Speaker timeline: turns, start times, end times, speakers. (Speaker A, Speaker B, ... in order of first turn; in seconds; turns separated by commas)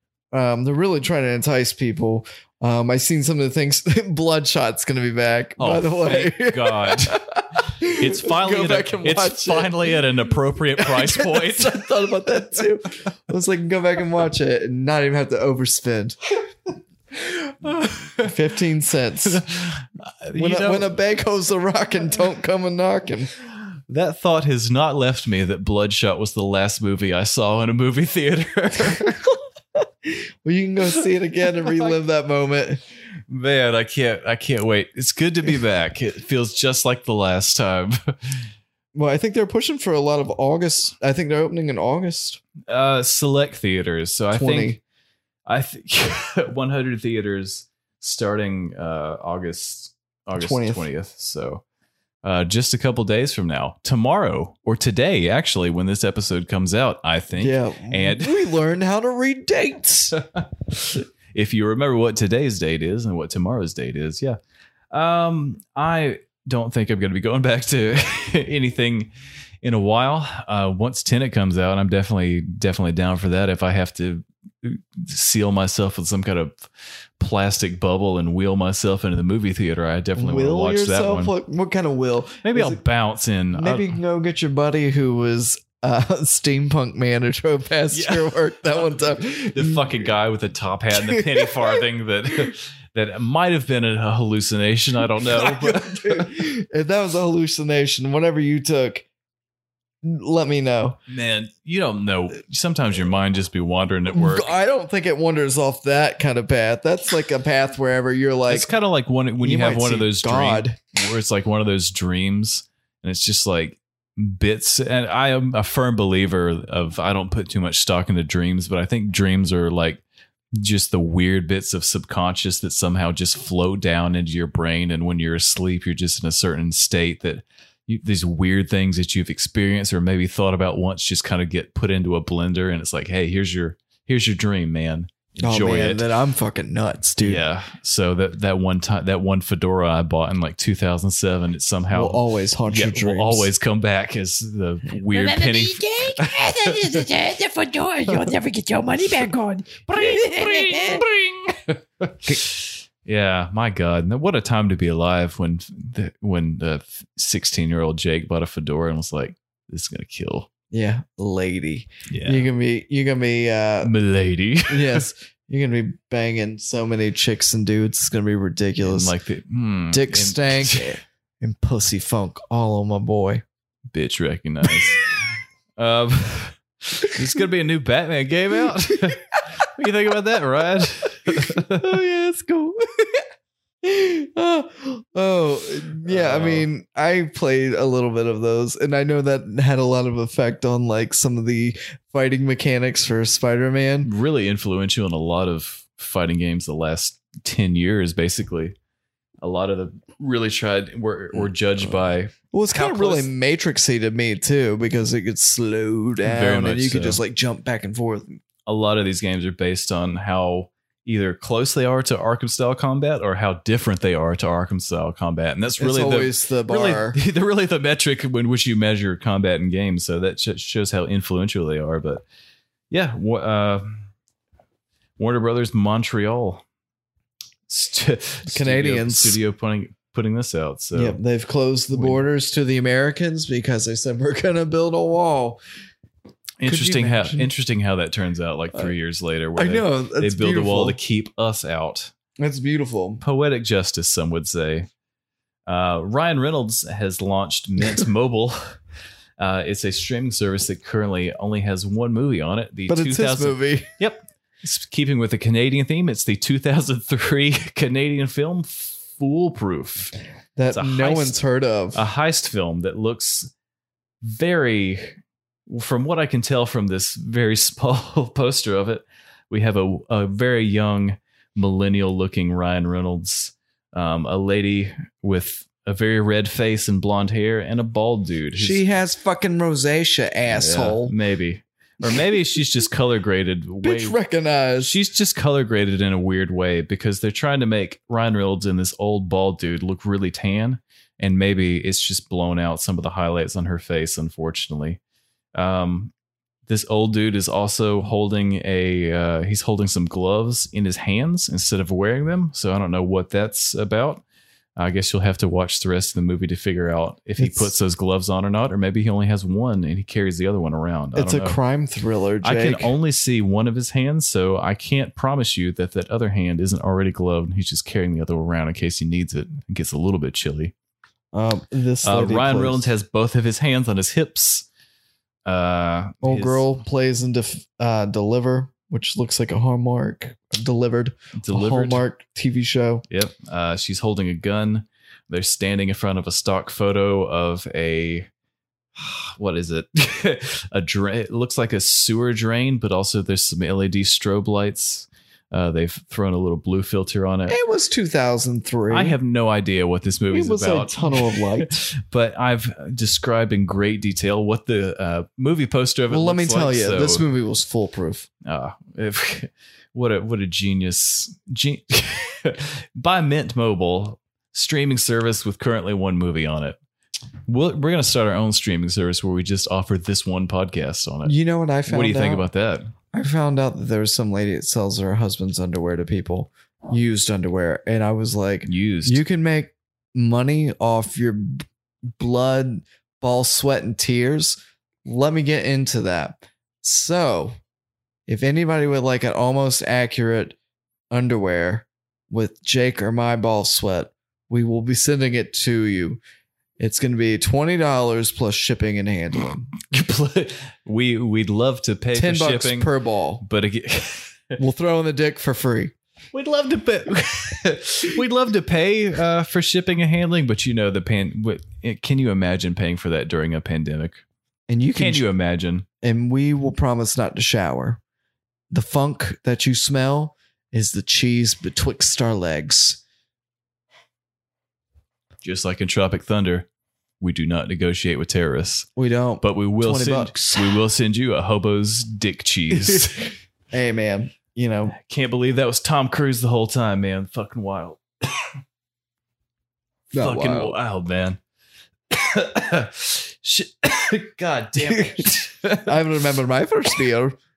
Speaker A: 0.3-10.0, Speaker B: 5.6-12.0, Speaker A: 10.8-16.4, Speaker B: 17.7-18.3, Speaker A: 18.2-19.4, Speaker B: 19.3-20.9, Speaker A: 20.4-23.3, Speaker B: 23.9-29.2, Speaker A: 30.0-32.8, Speaker B: 33.3-38.1, Speaker A: 38.9-42.4, Speaker B: 42.7-44.8, Speaker A: 44.3-44.8, Speaker B: 45.5-51.6, Speaker A: 50.4-50.9, Speaker B: 52.2-58.5, Speaker A: 57.4-60.2, Speaker B: 60.2-64.4, Speaker B: 64.9-69.1, Speaker B: 69.6-76.7, Speaker B: 77.2-81.3, Speaker A: 80.2-82.8, Speaker B: 82.4-84.0, Speaker A: 83.5-90.1, Speaker B: 87.9-96.5, Speaker A: 90.9-91.8, Speaker A: 95.2-99.1, Speaker A: 100.0-101.0, Speaker B: 101.1-104.5, Speaker A: 104.1-108.7, Speaker B: 108.5-120.0, Speaker A: 109.4-110.8, Speaker B: 120.5-136.1, Speaker A: 135.4-137.4, Speaker B: 137.2-147.0, Speaker A: 141.9-143.5, Speaker C: 145.1-151.1, Speaker B: 149.9-160.5, Speaker A: 160.7-163.9, Speaker B: 162.1-162.5, Speaker B: 163.8-165.1, Speaker A: 164.7-169.2, Speaker B: 168.8-171.0, Speaker A: 169.9-173.4, Speaker B: 173.9-181.9, Speaker A: 181.3-183.3, Speaker A: 183.8-194.1, Speaker B: 186.1-186.7, Speaker B: 194.0-198.8, Speaker B: 199.4-203.3, Speaker A: 202.5-208.4, Speaker B: 206.2-207.2, Speaker B: 208.7-222.2, Speaker A: 215.8-217.2, Speaker B: 222.9-224.1, Speaker B: 225.2-226.6, Speaker B: 227.7-231.2, Speaker A: 228.5-229.4, Speaker A: 230.9-235.6, Speaker B: 231.9-232.2, Speaker B: 236.6-242.1, Speaker A: 236.6-237.5, Speaker A: 239.6-241.0, Speaker A: 242.4-243.2, Speaker B: 243.2-244.9, Speaker B: 245.7-248.8, Speaker B: 249.4-260.1, Speaker A: 252.9-253.9, Speaker A: 260.6-262.0, Speaker B: 260.7-261.4, Speaker B: 261.9-263.5, Speaker B: 264.2-278.8, Speaker A: 278.6-281.1, Speaker B: 280.5-284.2, Speaker A: 283.8-284.9, Speaker B: 284.8-295.0, Speaker B: 295.6-296.1, Speaker B: 296.7-304.2, Speaker B: 304.8-311.6, Speaker A: 307.4-307.7, Speaker A: 311.1-312.9, Speaker B: 312.4-320.7, Speaker A: 321.3-322.9, Speaker B: 322.0-324.7, Speaker B: 325.4-326.7, Speaker A: 326.2-333.1, Speaker B: 331.4-332.0, Speaker B: 333.1-338.3, Speaker B: 339.0-347.6, Speaker A: 347.5-349.2, Speaker B: 348.9-357.3, Speaker A: 350.3-351.8, Speaker A: 356.1-358.3, Speaker B: 358.4-366.8, Speaker B: 367.5-371.4, Speaker A: 371.2-372.4, Speaker B: 371.9-372.9, Speaker A: 373.1-381.7, Speaker B: 378.6-379.2, Speaker A: 382.2-387.6, Speaker A: 388.3-390.6, Speaker A: 391.1-396.2, Speaker A: 396.8-399.7, Speaker B: 399.8-404.6, Speaker A: 402.1-403.5, Speaker A: 404.6-405.9, Speaker B: 406.3-414.2, Speaker A: 414.7-415.3, Speaker B: 414.9-415.9, Speaker A: 416.0-418.0, Speaker A: 418.7-423.0, Speaker B: 425.4-426.7, Speaker B: 427.2-428.9, Speaker A: 429.0-430.8, Speaker B: 429.4-433.3, Speaker A: 432.7-434.9, Speaker B: 434.9-438.3, Speaker A: 440.1-440.8, Speaker B: 440.1-441.4, Speaker B: 442.1-445.9, Speaker A: 444.9-445.3, Speaker A: 445.9-447.4